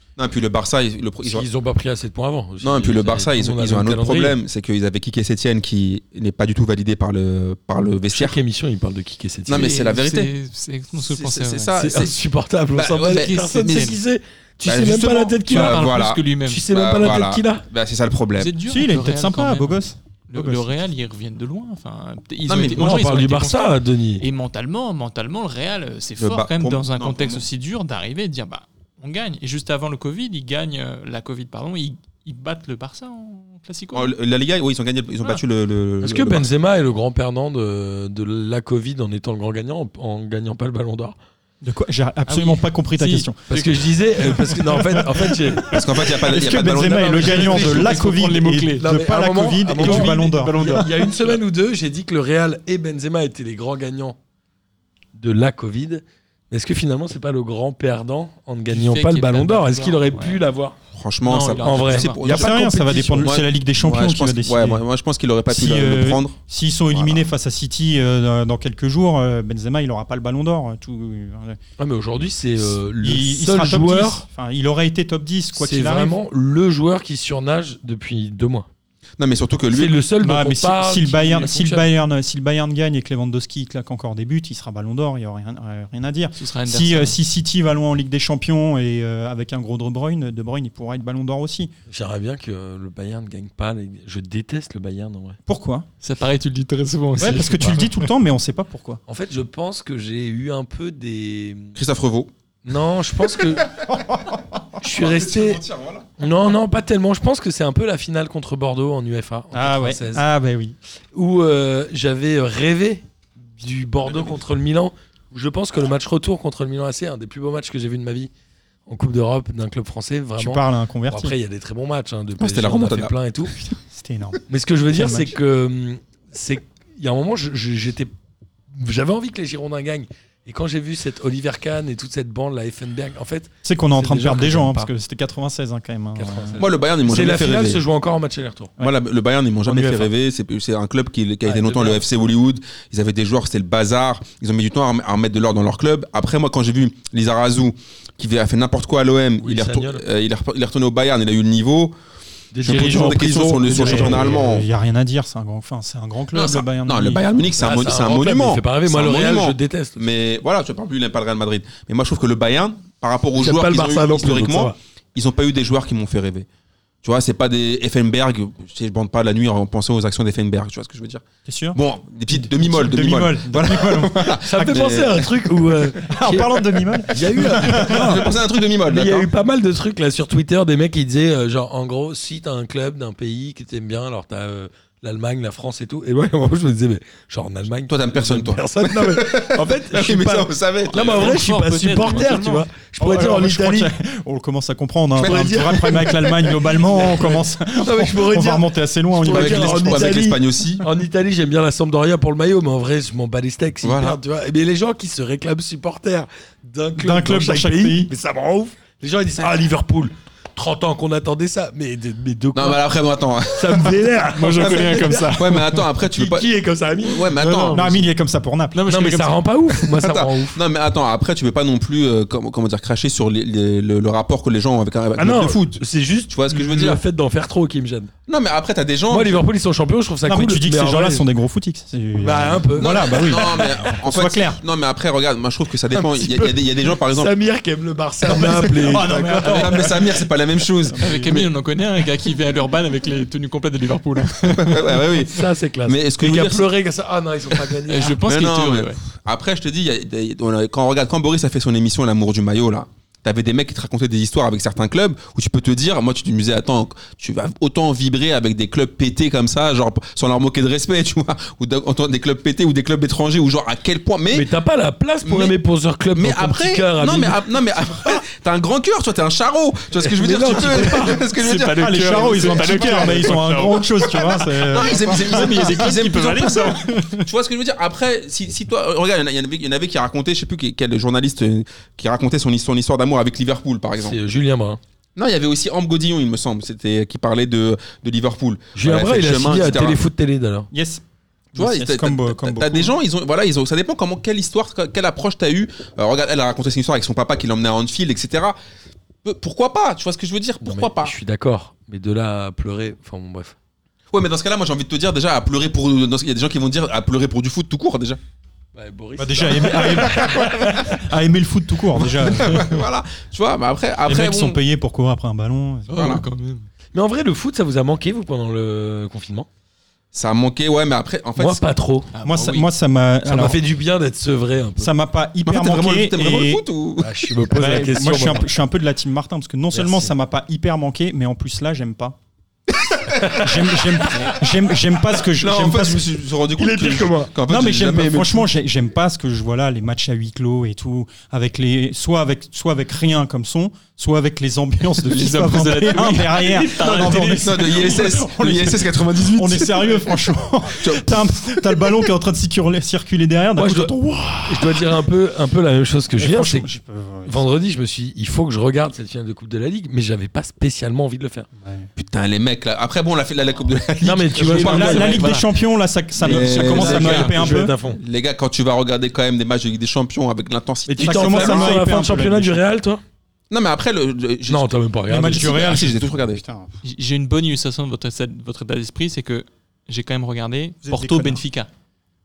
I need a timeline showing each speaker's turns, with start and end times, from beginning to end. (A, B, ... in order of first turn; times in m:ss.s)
0:00.2-0:01.5 A
0:01.2-0:04.4 B
0:02.6-0:08.4 A
0:08.1-0:09.7 B
0:09.5-0:10.3 A
0:09.5-0:11.8 C
0:11.0-0:12.2 A
0:11.8-0:15.9 B
0:12.7-0:14.0 A
0:13.1-0:14.0 C
0:14.6-0:18.5 A
0:15.5-0:16.7 C
0:16.5-0:17.6 B
0:18.4-0:34.1 C
0:18.7-0:20.8 D
0:22.5-0:23.0 A
0:22.8-0:24.2 B
0:26.2-0:27.5 A
0:33.9-0:36.5 A
0:36.0-0:41.2 B
0:41.6-0:50.8 D
0:42.3-0:43.6 C
0:43.5-0:45.8 B
0:45.7-0:48.0 A
0:46.6-0:48.0 B
0:47.3-0:48.9 C
0:48.8-0:54.2 B
0:49.8-0:51.4 C
0:55.2-1:00.8 B
0:58.7-1:00.4 C
1:00.9-1:02.6 A
1:01.2-1:02.2 C
1:01.6-1:03.3 B
1:02.2-1:04.8 D
1:03.2-1:06.4 A
1:05.5-1:11.6 D
1:06.9-1:07.3 A
1:11.8-1:14.3 B
1:13.0-1:16.2 D
1:15.6-1:18.7 B
1:19.2-1:20.0 A
1:19.7-1:21.9 B
1:20.2-1:31.7 D
1:26.4-1:27.2 C
1:31.9-1:35.4 B
1:35.5-1:35.9 D
1:36.0-1:38.0 C
1:37.2-1:39.0 D
1:39.1-1:41.8 B
1:41.8-1:42.3 A
1:42.6-1:43.7 B
1:43.9-1:44.6 D
1:44.8-1:45.6 B
1:44.8-1:46.1 A
1:46.2-1:50.2 B
1:49.5-1:50.8 D
1:51.1-1:58.3 B
1:58.9-2:03.6 B
2:00.4-2:01.4 D
2:02.4-2:03.1 A
2:03.8-2:05.4 D
2:04.5-2:08.1 B
2:08.7-2:14.9 B
2:13.6-2:16.6 D
2:16.2-2:18.8 B
2:16.6-2:17.8 A
2:18.8-2:32.0 A
2:19.7-2:20.1 B
2:21.4-2:22.1 B
2:29.4-2:30.0 B
2:32.5-2:34.6 B
2:32.6-2:34.7 A
2:32.7-2:37.3 D
2:36.3-2:46.5 A
2:37.6-2:40.0 B
2:43.4-2:44.8 B
2:47.0-2:51.2 A
2:51.4-2:51.8 D
2:51.8-2:55.3 A
2:52.3-2:55.0 D
2:54.4-3:13.9 B
2:56.0-2:58.2 D
2:57.6-2:59.3 A
3:07.9-3:11.4 A
3:10.9-3:12.7 C
3:13.0-3:20.2 D
3:15.2-3:16.5 A
3:15.2-3:32.8 B
3:19.2-3:20.9 A
3:23.8-3:24.2 A
3:27.0-3:28.1 D
3:32.5-3:36.5 A
3:33.5-3:37.8 B
3:34.3-3:35.7 C
3:37.0-3:37.9 A
3:37.4-3:38.0 C
3:37.7-3:38.8 D
3:38.7-3:39.8 C
3:38.9-3:40.6 B
3:39.9-3:47.0 A
3:45.2-3:48.1 B
3:48.3-3:49.4 A
3:49.1-3:51.3 B
3:50.3-3:54.6 D
3:52.2-3:53.7 B
3:52.8-3:57.3 A
3:55.9-4:00.0 B
3:58.2-4:00.2 D
3:59.0-4:01.5 A
4:00.9-4:01.4 D
4:01.0-4:04.9 C
4:04.5-4:06.7 A
4:05.2-4:08.2 B
4:07.9-4:09.0 C
4:08.2-4:24.5 A
4:24.3-4:27.4 B
4:25.2-4:25.6 A
4:26.1-4:32.6 A
4:30.0-4:31.2 B
4:31.0-4:34.1 C
4:31.7-4:37.3 D
4:34.0-4:44.2 A
4:34.7-4:36.8 C
4:44.0-4:44.8 B
4:45.2-4:50.1 A
4:48.8-4:50.7 B
4:50.7-4:53.0 D
4:51.6-4:58.6 A
4:59.2-5:01.2 A
5:00.6-5:03.6 B
5:04.1-5:08.2 A
5:08.8-5:10.9 B
5:09.2-5:12.7 D
5:10.0-5:10.7 A
5:12.0-5:14.6 A
5:14.1-5:16.2 D
5:15.9-5:16.7 C
5:16.0-5:16.2 A
5:16.9-5:19.5 B
5:20.1-5:21.6 A
5:21.4-5:22.1 B
5:22.1-5:22.7 C
5:22.2-5:23.6 D
5:23.3-5:24.9 B
5:24.8-5:26.6 D
5:25.4-5:27.3 A
5:27.0-5:28.5 B
5:27.5-5:32.2 D
5:29.7-5:30.1 B
5:32.9-5:33.3 A
5:33.3-5:36.1 D
5:35.1-5:38.5 A
5:36.6-5:37.3 B
5:37.5-5:55.0 D
5:45.0-5:47.7 C
5:46.8-5:50.2 A
5:50.8-5:51.9 A
5:53.6-5:53.9 B
5:54.5-5:56.7 B
5:56.2-5:57.4 D
5:57.3-6:01.5 B
6:01.6-6:01.9 D
6:02.0-6:05.4 A
6:04.0-6:05.4 B
6:04.4-6:05.4 C
6:04.6-6:07.7 D
6:06.2-6:11.8 A
6:06.2-6:08.0 B
6:10.9-6:13.0 B
6:11.0-6:12.6 D
6:13.5-6:16.4 A
6:14.5-6:15.6 B
6:15.1-6:16.7 D
6:16.8-6:21.7 C
6:20.8-6:21.4 D